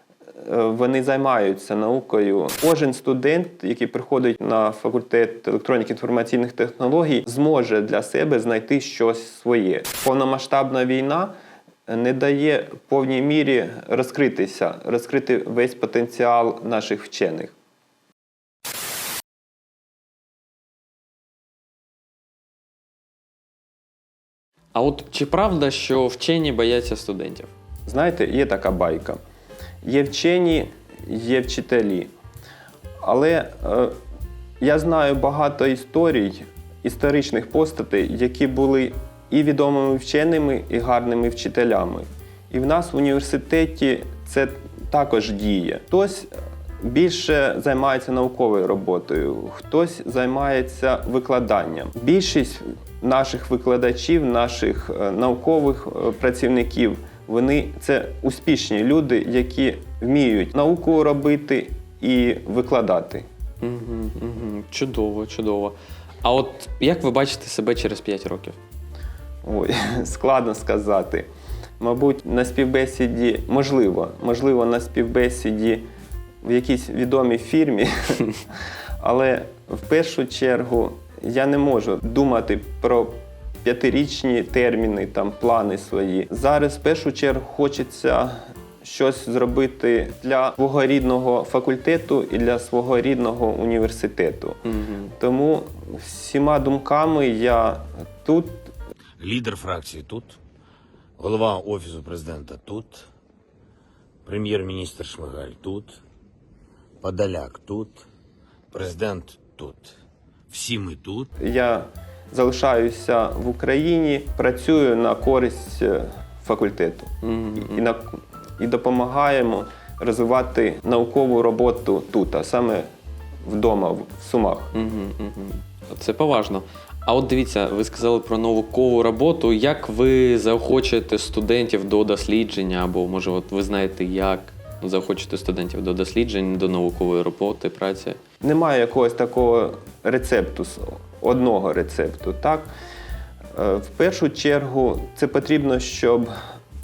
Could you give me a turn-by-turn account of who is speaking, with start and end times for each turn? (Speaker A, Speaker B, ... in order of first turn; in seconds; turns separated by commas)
Speaker A: 0.4-11.3, Speaker A: 11.9-17.5, Speaker B: 24.7-27.5, Speaker A: 27.9-29.2, Speaker A: 29.8-32.1, Speaker A: 33.0-33.9, Speaker A: 34.6-46.3, Speaker A: 46.8-63.2, Speaker B: 63.6-68.5, Speaker A: 69.4-71.3, Speaker A: 71.8-75.8, Speaker A: 76.4-78.3, Speaker A: 79.0-94.6, Speaker B: 94.7-95.1, Speaker A: 95.2-98.7, Speaker C: 99.2-100.4, Speaker C: 101.2-103.1, Speaker C: 104.2-106.0, Speaker C: 107.0-108.0, Speaker C: 108.7-110.0, Speaker C: 110.5-111.3, Speaker A: 111.4-122.9, Speaker B: 117.2-117.8, Speaker A: 123.5-124.7, Speaker B: 124.7-138.2, Speaker A: 138.4-142.7, Speaker A: 143.5-146.3